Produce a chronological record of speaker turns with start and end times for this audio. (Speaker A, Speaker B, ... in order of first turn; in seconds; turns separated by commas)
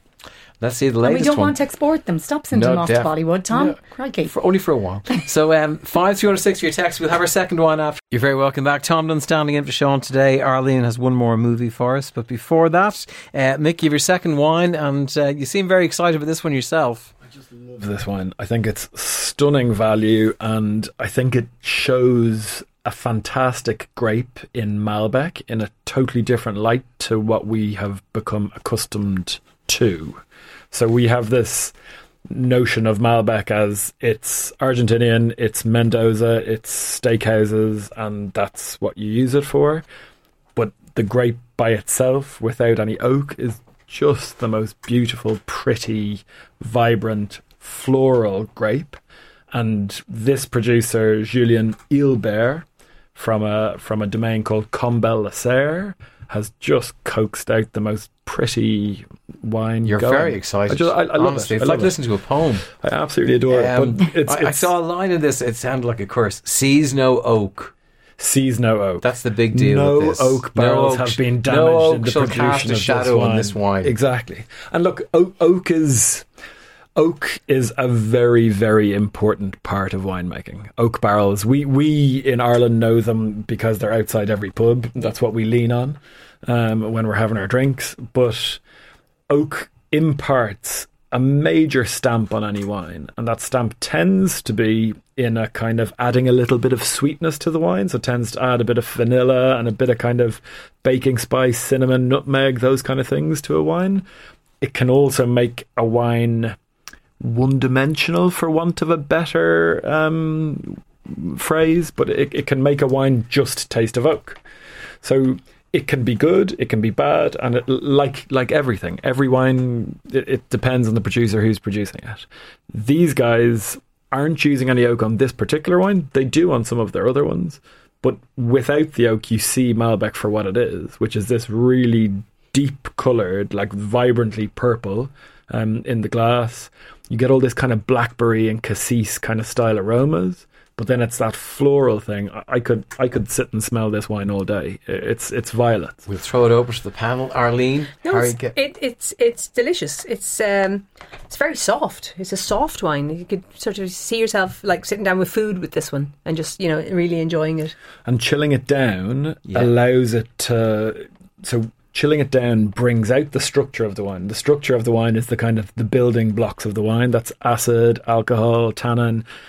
Speaker A: 0.6-1.6, Speaker B: 1.0-4.3, Speaker A: 2.5-17.1, Speaker C: 17.3-31.7, Speaker C: 32.3-39.8, Speaker C: 40.5-49.0, Speaker C: 49.5-62.0, Speaker A: 59.8-62.6, Speaker C: 62.6-64.7, Speaker A: 63.5-67.7, Speaker C: 68.2-76.3, Speaker A: 69.0-73.9, Speaker C: 77.0-88.6, Speaker C: 89.3-104.0, Speaker C: 104.6-106.6, Speaker C: 107.2-114.4, Speaker C: 115.0-146.0, Speaker A: 146.1-148.6, Speaker D: 148.0-157.7, Speaker C: 158.0-169.2